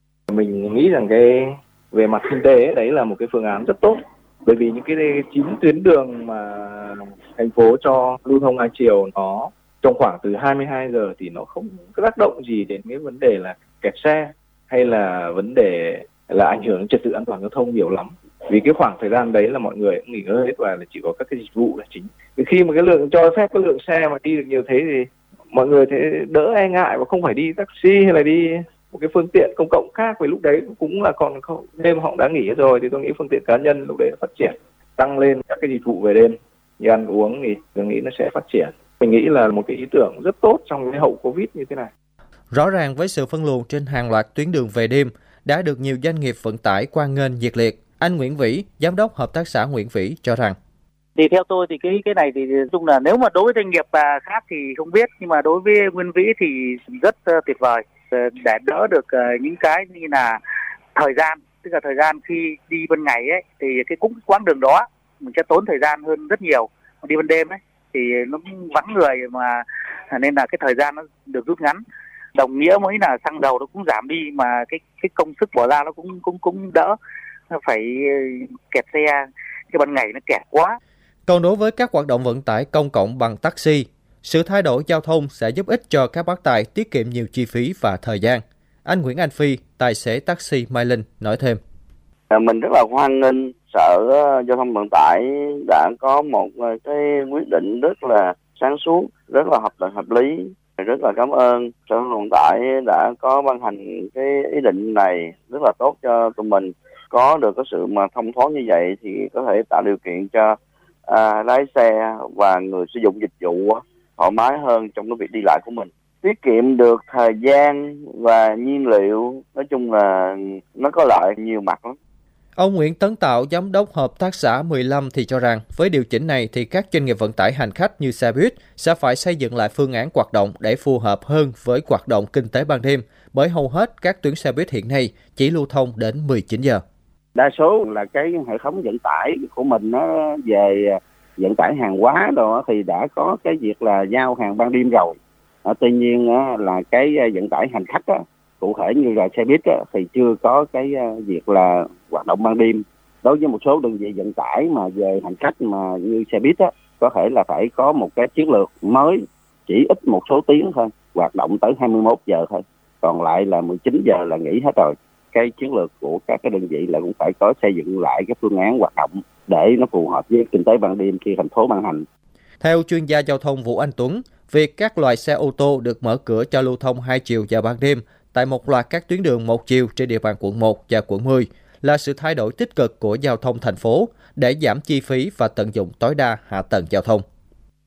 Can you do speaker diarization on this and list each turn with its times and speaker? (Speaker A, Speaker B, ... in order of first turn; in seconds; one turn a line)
Speaker A: 0.3-41.9
Speaker B: 42.5-50.6
Speaker C: 51.2-60.4
Speaker C: 61.0-71.8
Speaker C: 72.3-77.0
Speaker C: 77.5-80.8
Speaker B: 81.3-91.6
Speaker D: 92.3-110.6
Speaker D: 111.1-122.0
Speaker B: 122.6-136.8
Speaker E: 137.4-172.1
Speaker B: 172.6-187.2